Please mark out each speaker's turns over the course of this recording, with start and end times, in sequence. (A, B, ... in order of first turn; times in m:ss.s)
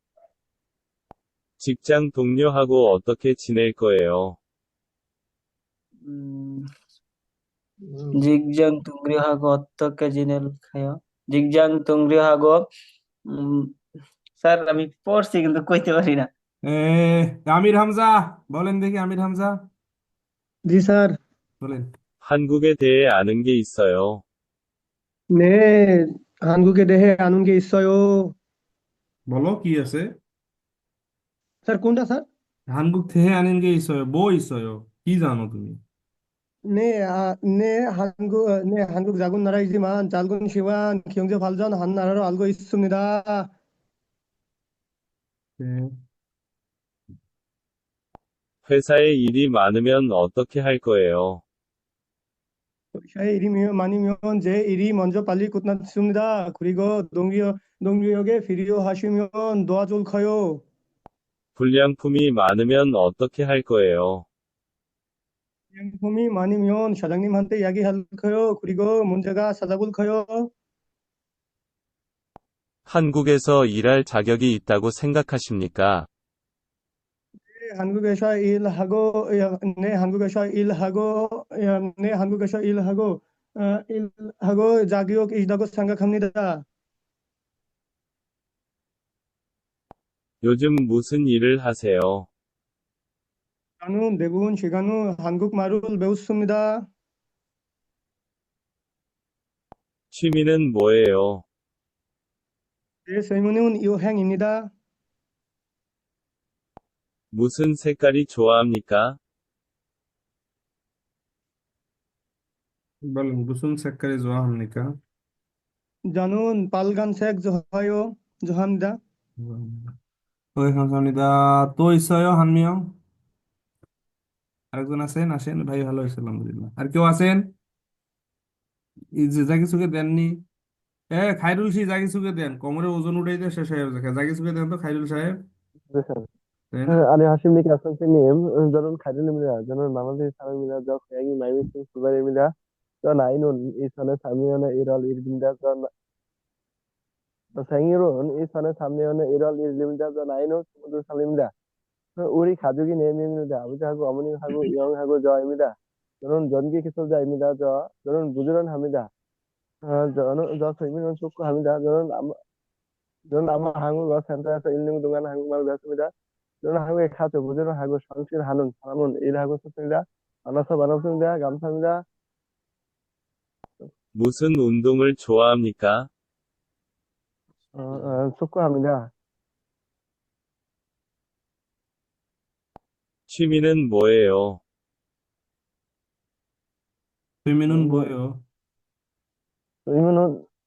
0:01.6-0:04.4 A
0:06.0-0:06.7 B
0:08.2-0:12.6 B
0:13.3-0:13.7 B
0:14.4-0:16.3 B
0:16.7-0:19.6 C
0:20.7-0:21.1 D
0:22.2-0:24.2 A
0:25.4-0:28.3 D
0:29.3-0:30.0 C
0:31.7-0:32.2 D
0:32.7-0:35.8 C
0:36.7-0:43.5 D
0:45.6-0:45.9 C
0:48.7-0:51.4 A
0:53.0-1:00.6 D
1:01.6-1:04.2 A
1:05.8-1:10.5 D
1:12.9-1:16.0 A
1:17.6-1:26.6 D
1:30.4-1:32.3 A
1:33.8-1:36.8 D
1:40.1-1:41.4 A
1:43.1-1:44.6 D
1:47.3-1:49.0 A
1:53.0-1:54.9 C
1:56.1-1:59.0 D
1:59.4-1:59.9 C
2:00.6-2:02.8 C
2:04.7-2:07.4 C
2:09.2-2:10.3 C
2:11.1-2:15.4 C
2:15.9-2:16.2 E
2:16.7-2:17.0 C
2:16.9-2:22.5 E
2:23.0-2:25.9 E
2:27.6-2:31.5 E
2:32.2-2:39.1 E
2:39.9-2:42.3 E
2:43.3-2:46.1 E
2:46.6-2:52.0 E
2:54.2-2:56.0 A
2:57.8-2:59.0 E
3:03.3-3:04.6 A
3:07.4-3:08.3 C
3:07.7-3:08.1 E
3:09.9-3:10.3 E